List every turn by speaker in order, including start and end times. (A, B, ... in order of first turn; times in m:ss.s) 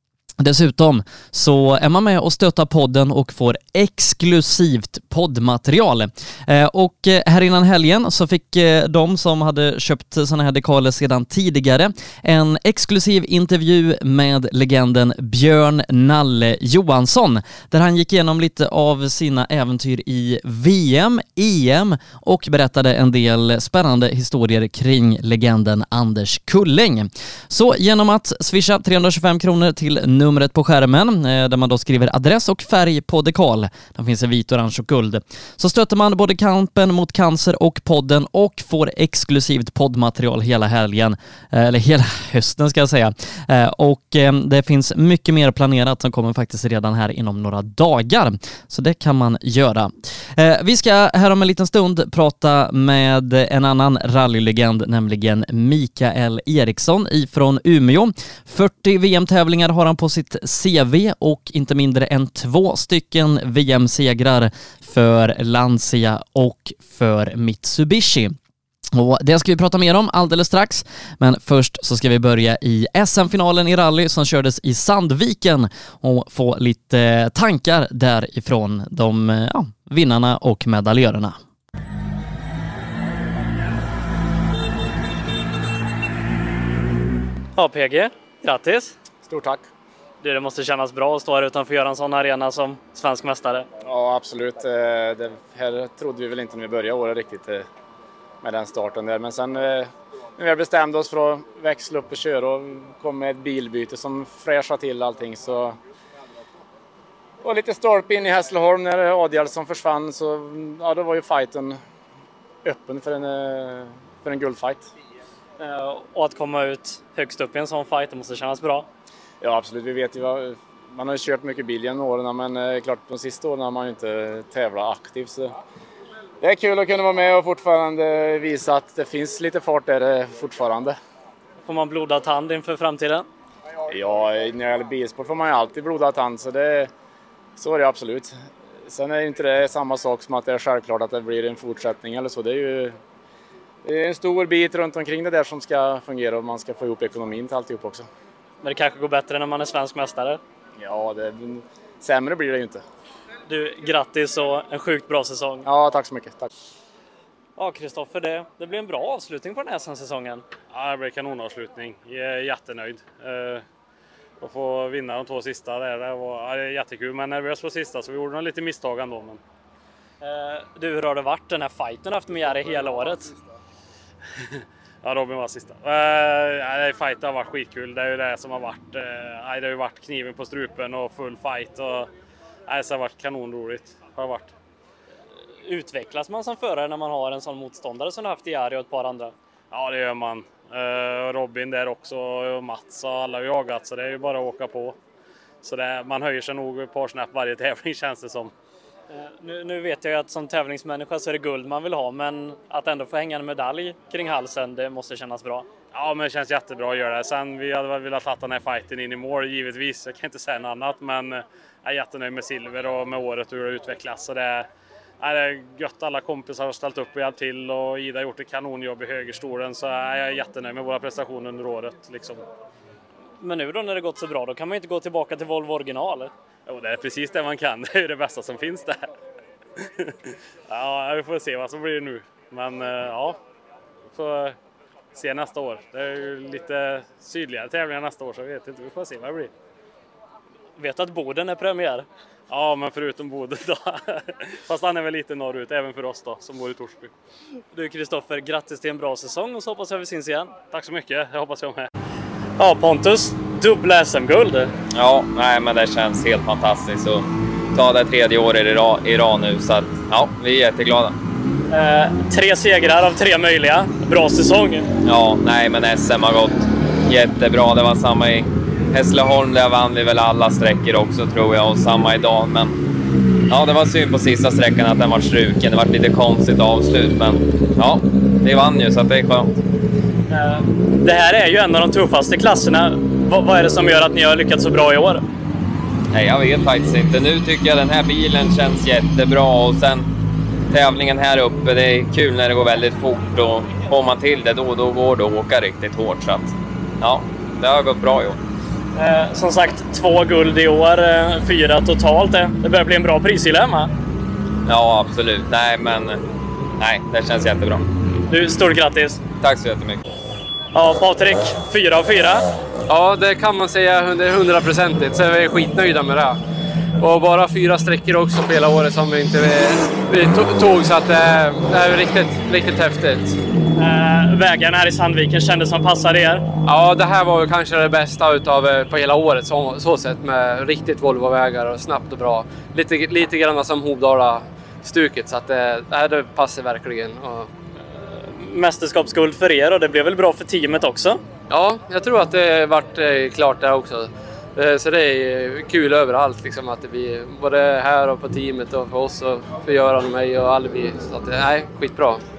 0:00.4-1:08.3 A
1:08.9-1:21.4 A
1:27.6-1:28.9 B
1:29.2-1:29.7 C
1:30.2-1:33.6 B
1:33.8-1:37.7 C
1:38.4-1:45.8 C
1:47.4-1:51.8 C
1:52.6-1:54.9 C
1:55.6-1:58.9 B
1:59.4-2:05.5 C
2:06.4-2:11.0 C
2:11.6-2:13.2 B
2:13.9-2:16.9 C
2:17.6-2:23.0 C
2:23.8-2:28.1 C
2:28.6-2:30.4 B
2:30.8-2:32.8 C
2:33.5-2:35.6 B
2:35.6-2:36.5 C
2:37.6-2:40.4 B
2:40.7-2:43.6 D
2:44.4-2:49.4 D
2:50.2-2:53.3 B
2:55.0-3:02.1 D
3:02.7-3:04.5 D
3:05.6-3:09.3 B
3:09.7-3:15.0 D
3:15.6-3:18.5 D
3:19.1-3:25.7 B
3:25.9-3:34.7 D
3:35.2-3:42.4 D
3:43.4-3:46.3 B
3:46.6-3:49.0 D
3:50.7-3:53.4 D
3:54.1-3:54.6 D
3:55.1-3:59.5 D
4:00.8-4:02.0 B
4:02.5-4:07.1 D
4:07.7-4:10.6 B
4:10.6-4:11.9 D
4:12.6-4:14.7 B
4:14.9-4:21.1 E
4:21.7-4:24.9 B
4:25.0-4:32.8 E
4:33.5-4:39.5 E
4:40.3-4:45.2 B
4:46.1-4:50.1 E
4:50.7-4:58.4 E
4:59.0-5:03.9 B
5:04.6-5:06.2 E
5:06.8-5:07.9 E
5:08.3-5:09.2 B
5:09.4-5:10.0 E
5:10.7-5:12.4 B
5:12.9-5:16.4 F
5:17.0-5:23.4 F
5:23.8-5:26.4 B
5:26.6-5:37.5 F
5:38.3-5:41.2 B
5:41.5-5:52.2 F